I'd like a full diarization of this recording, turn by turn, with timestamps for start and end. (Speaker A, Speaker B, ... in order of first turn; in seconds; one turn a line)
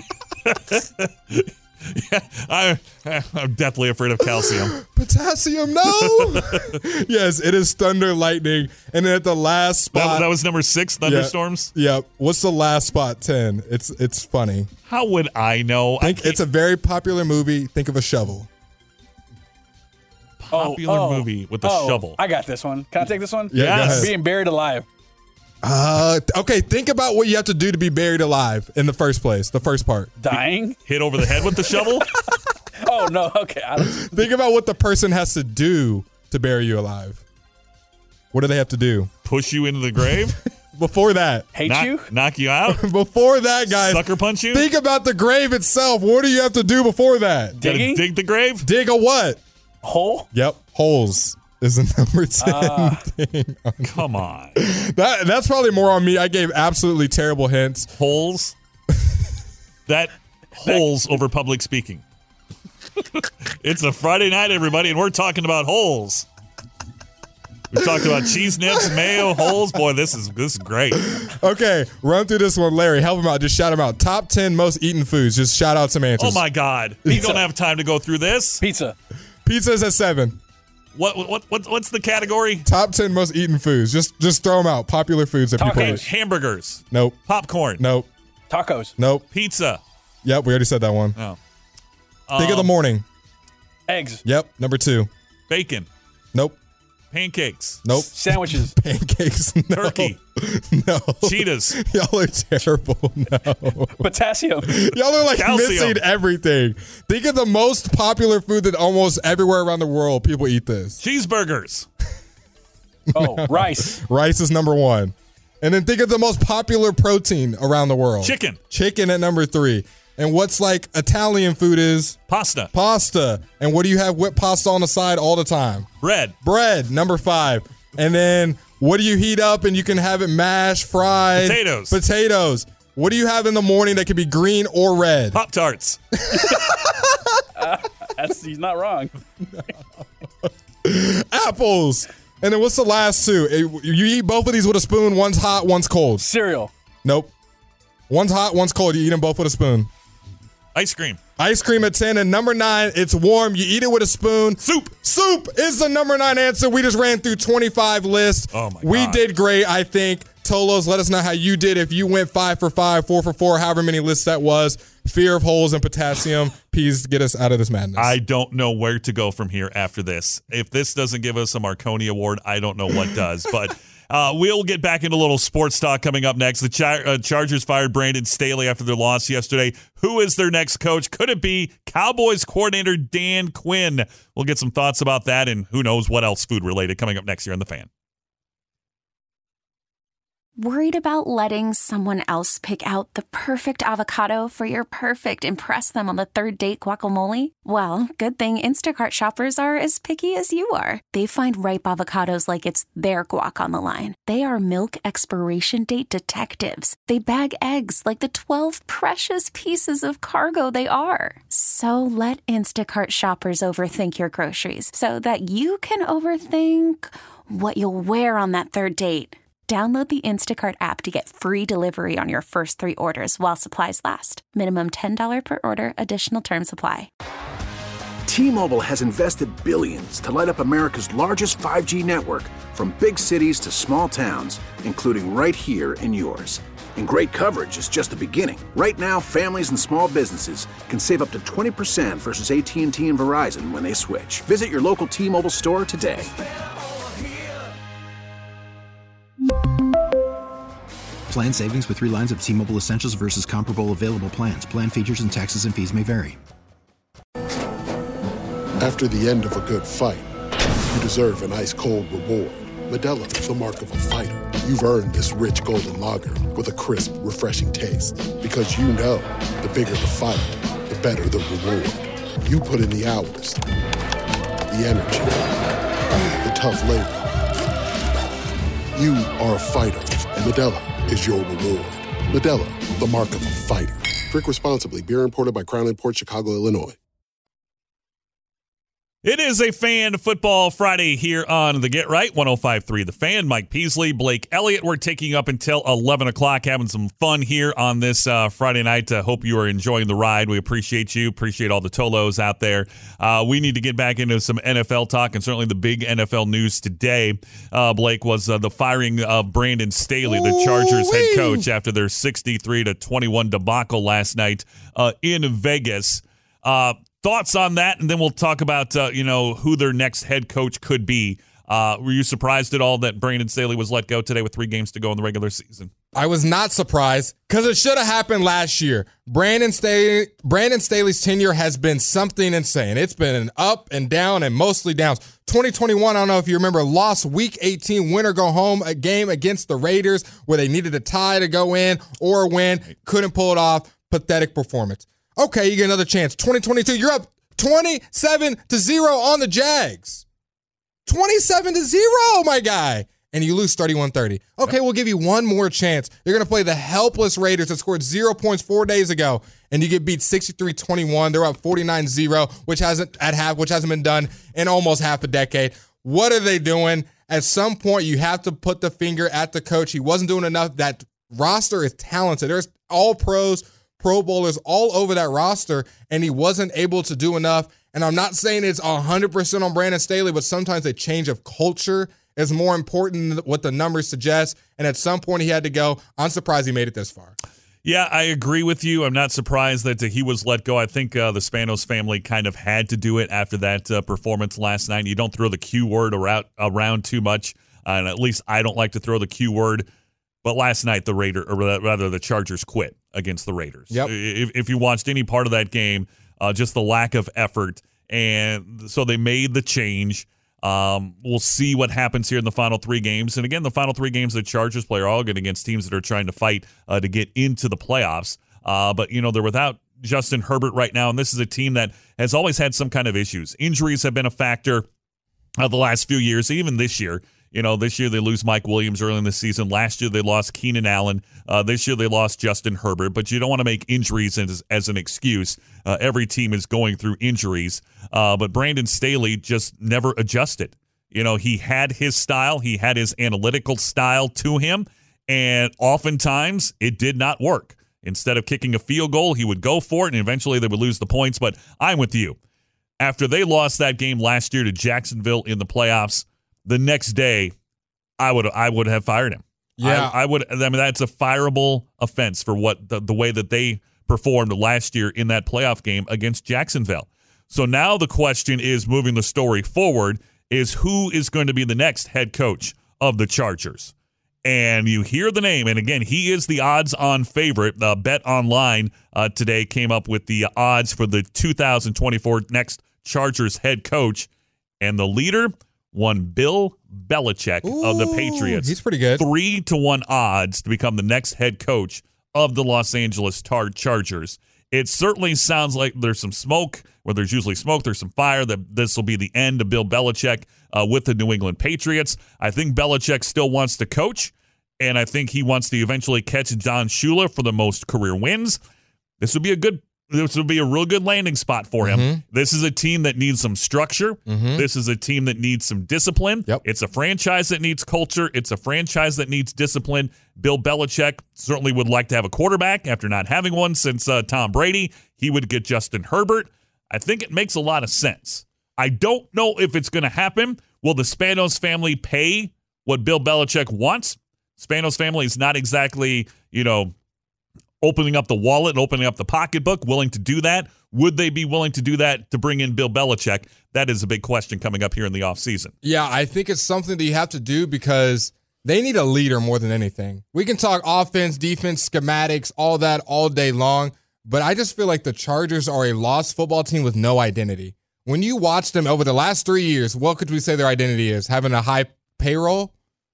Speaker A: 0.4-4.8
Speaker B: 4.4-10.3
Speaker A: 6.0-6.8
Speaker A: 9.9-11.7
Speaker B: 11.0-14.7
Speaker A: 14.9-16.4
Speaker B: 16.0-18.5
Speaker A: 20.4-22.2
Speaker C: 20.5-24.9
Speaker B: 23.5-24.1
Speaker A: 23.5-24.1
Speaker B: 25.6-30.1
Speaker C: 30.2-34.3
Speaker A: 30.3-32.1
Speaker B: 33.8-37.2
Speaker B: 38.3-39.1
Speaker A: 39.2-40.4
Speaker B: 40.0-41.5
Speaker C: 41.5-42.1
Speaker A: 41.6-42.9
Speaker B: 42.7-47.6
Speaker A: 43.7-44.7
Speaker C: 47.5-48.1
Speaker A: 47.6-48.7
Speaker B: 48.6-49.4
Speaker C: 49.8-50.3
Speaker B: 50.3-57.9
Speaker C: 52.4-53.0
Speaker A: 53.8-54.6
Speaker A: 58.0-58.5
Speaker A: 59.9-62.0
Speaker A: 63.0-66.3
Speaker A: 67.7-71.2
Speaker B: 68.7-69.5
Speaker B: 71.0-76.4
Speaker A: 76.2-78.6
Speaker B: 77.0-77.5
Speaker C: 78.6-79.0
Speaker B: 79.5-80.4
Speaker A: 81.0-82.7
Speaker B: 82.6-86.0
Speaker C: 85.6-86.0
Speaker A: 85.7-87.8
Speaker B: 86.9-87.2
Speaker B: 87.8-88.1
Speaker C: 88.5-88.9
Speaker B: 89.0-89.2
Speaker A: 89.3-89.8
Speaker B: 90.2-91.2
Speaker A: 92.3-92.7
Speaker B: 92.3-93.0
Speaker C: 93.9-94.2
Speaker B: 94.2-95.1
Speaker A: 95.5-95.9
Speaker A: 97.1-97.9
Speaker B: 97.8-104.1
Speaker C: 98.1-98.8
Speaker A: 99.8-100.2
Speaker A: 101.2-101.8
Speaker C: 104.0-104.8
Speaker B: 104.7-111.0
Speaker A: 105.3-106.0
Speaker A: 111.0-111.9
Speaker B: 113.1-122.2
Speaker C: 113.1-114.0
Speaker A: 118.2-118.6
Speaker A: 122.3-122.7
Speaker B: 122.7-125.9
Speaker A: 126.0-126.3
Speaker B: 126.4-135.4
Speaker A: 131.4-132.0
Speaker A: 135.3-136.0
Speaker B: 136.2-137.3
Speaker C: 137.6-139.1
Speaker B: 140.4-146.3
Speaker C: 146.2-146.7
Speaker B: 147.0-147.3
Speaker B: 148.1-149.9
Speaker A: 150.8-151.2
Speaker B: 151.4-168.2
Speaker A: 154.6-154.9
Speaker A: 158.5-159.2
Speaker A: 168.0-187.9
Speaker D: 190.6-227.1
Speaker E: 228.3-246.3
Speaker F: 251.3-256.4
Speaker G: 258.8-260.3
Speaker G: 260.9-273.6
Speaker G: 274.7-275.6
Speaker G: 276.4-277.3
Speaker G: 278.9-287.0
Speaker A: 289.2-325.9
Speaker B: 310.3-311.6
Speaker B: 326.1-350.2
Speaker B: 351.1-387.4
Speaker A: 387.8-399.9
Speaker A: 400.4-424.9
Speaker A: 425.6-452.4
Speaker A: 453.0-457.5
Speaker A: 458.2-473.9
Speaker B: 459.8-460.1
Speaker A: 474.4-484.3
Speaker A: 484.8-508.6
Speaker B: 487.6-489.2
Speaker A: 509.2-536.9
Speaker B: 511.8-512.2
Speaker B: 514.3-514.6
Speaker A: 537.8-545.7
Speaker B: 545.8-562.7